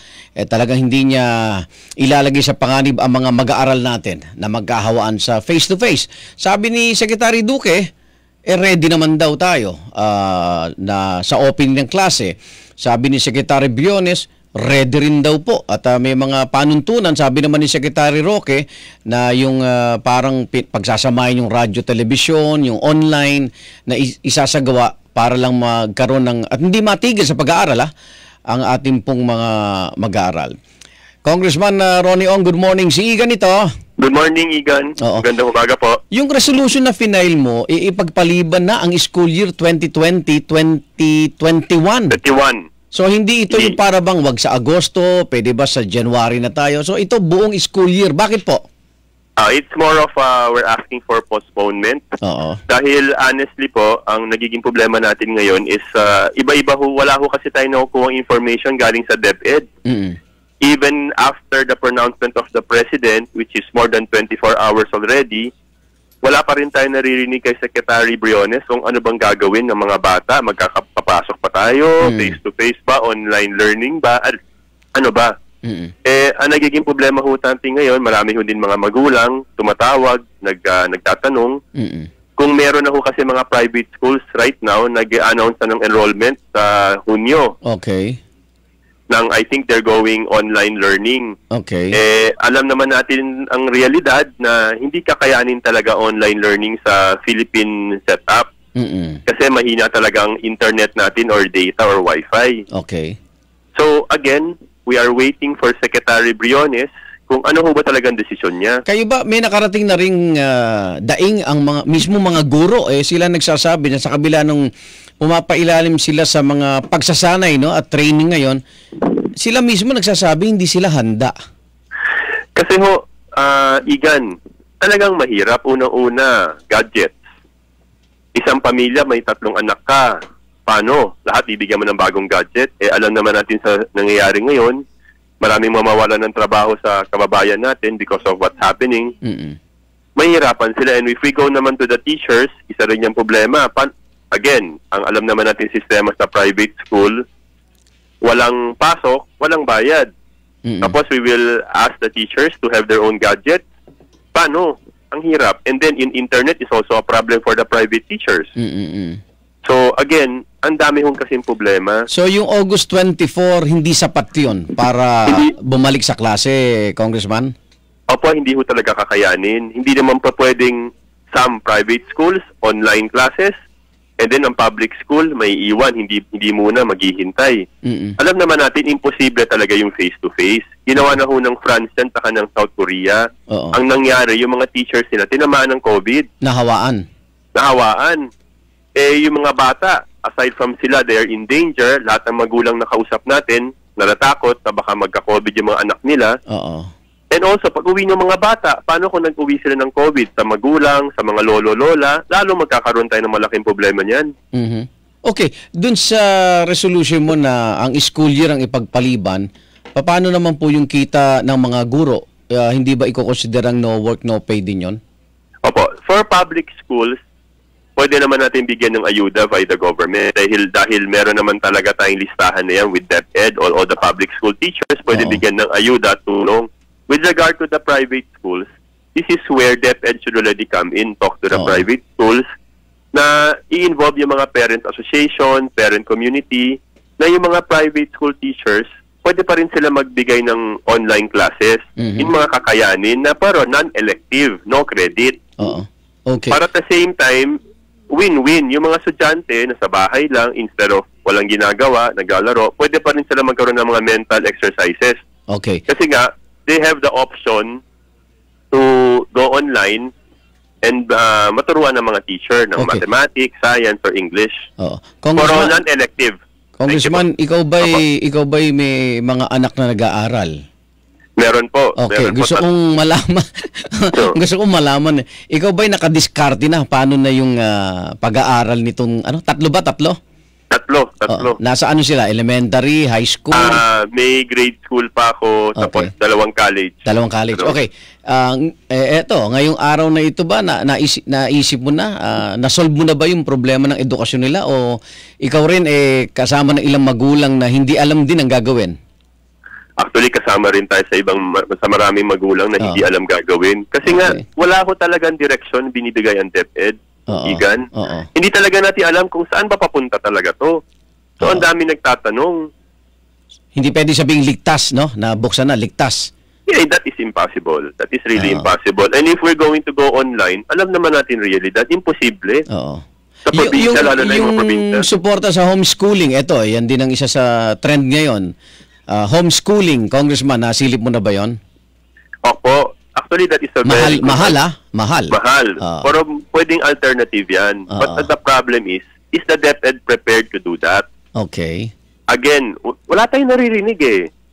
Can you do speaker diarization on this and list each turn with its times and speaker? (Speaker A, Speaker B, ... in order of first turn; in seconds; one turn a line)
Speaker A: 0.4-7.8
Speaker A: 8.5-27.9
Speaker A: 28.5-30.5
Speaker A: 31.2-33.7
Speaker B: 34.0-36.0
Speaker A: 35.0-35.2
Speaker A: 36.1-42.2
Speaker B: 42.1-42.6
Speaker A: 42.9-48.6
Speaker B: 49.4-52.0
Speaker A: 52.2-52.6
Speaker B: 52.7-59.6
Speaker A: 59.9-60.2
Speaker B: 60.6-65.5
Speaker B: 66.2-74.4
Speaker A: 72.0-72.4
Speaker B: 75.0-75.3
Speaker A: 75.6-75.9
Speaker B: 76.0-81.6
Speaker A: 81.8-82.1
Speaker B: 82.4-87.5
Speaker A: 87.7-88.2
Speaker B: 89.1-91.3
Speaker A: 91.5-92.0
Speaker B: 91.9-98.5
Speaker A: 98.8-99.2
Speaker B: 99.2-102.6
Speaker A: 102.7-103.2
Speaker B: 103.8-108.8
Speaker A: 108.9-114.7
Speaker A: 115.2-118.6
Speaker A: 119.3-121.3
Speaker B: 122.5-124.3
Speaker B: 124.8-127.1
Speaker B: 128.3-130.1
Speaker B: 130.7-134.8
Speaker B: 135.4-139.1
Speaker A: 139.2-139.6
Speaker B: 140.2-147.2
Speaker B: 148.2-150.1
Speaker A: 150.6-151.0
Speaker B: 150.8-153.6
Speaker B: 154.3-158.5
Speaker A: 158.6-159.2
Speaker B: 159.6-162.1
Speaker A: 162.1-167.5
Speaker B: 168.1-173.5
Speaker B: 174.2-177.6
Speaker A: 177.8-178.2
Speaker B: 178.2-186.3
Speaker A: 183.5-183.8
Speaker A: 186.4-187.0
Speaker B: 187.6-188.2
Speaker B: 188.9-196.3
Speaker A: 196.5-196.9
Speaker B: 197.3-204.3
Speaker A: 204.5-215.0
Speaker B: 215.6-217.2
Speaker B: 218.0-232.4
Speaker A: 225.1-225.4
Speaker A: 231.5-231.8
Speaker B: 233.1-245.4
Speaker A: 242.0-242.3
Speaker A: 245.6-246.6
Speaker B: 246.5-247.6
Speaker B: 248.1-255.2
Speaker A: 255.5-255.8
Speaker B: 255.9-257.8
Speaker B: 258.7-260.1
Speaker B: 260.8-264.6
Speaker A: 262.8-263.0
Speaker A: 264.8-265.8
Speaker B: 265.4-267.2
Speaker A: 266.8-270.5
Speaker B: 271.4-272.6
Speaker A: 272.0-280.2
Speaker B: 280.7-281.6
Speaker A: 281.3-283.8
Speaker B: 283.5-287.7
Speaker A: 285.8-286.1
Speaker A: 287.1-298.9
Speaker B: 300.0-310.8
Speaker A: 304.0-304.4
Speaker A: 307.3-308.3
Speaker B: 311.4-312.7
Speaker A: 313.7-316.3
Speaker B: 316.7-322.6
Speaker A: 318.4-318.7
Speaker A: 322.7-328.5
Speaker B: 323.5-325.1
Speaker A: 329.1-331.6
Speaker B: 332.4-334.6
Speaker A: 333.8-336.1
Speaker B: 335.3-341.0
Speaker A: 337.9-338.3
Speaker A: 341.4-341.9
Speaker B: 342.3-344.3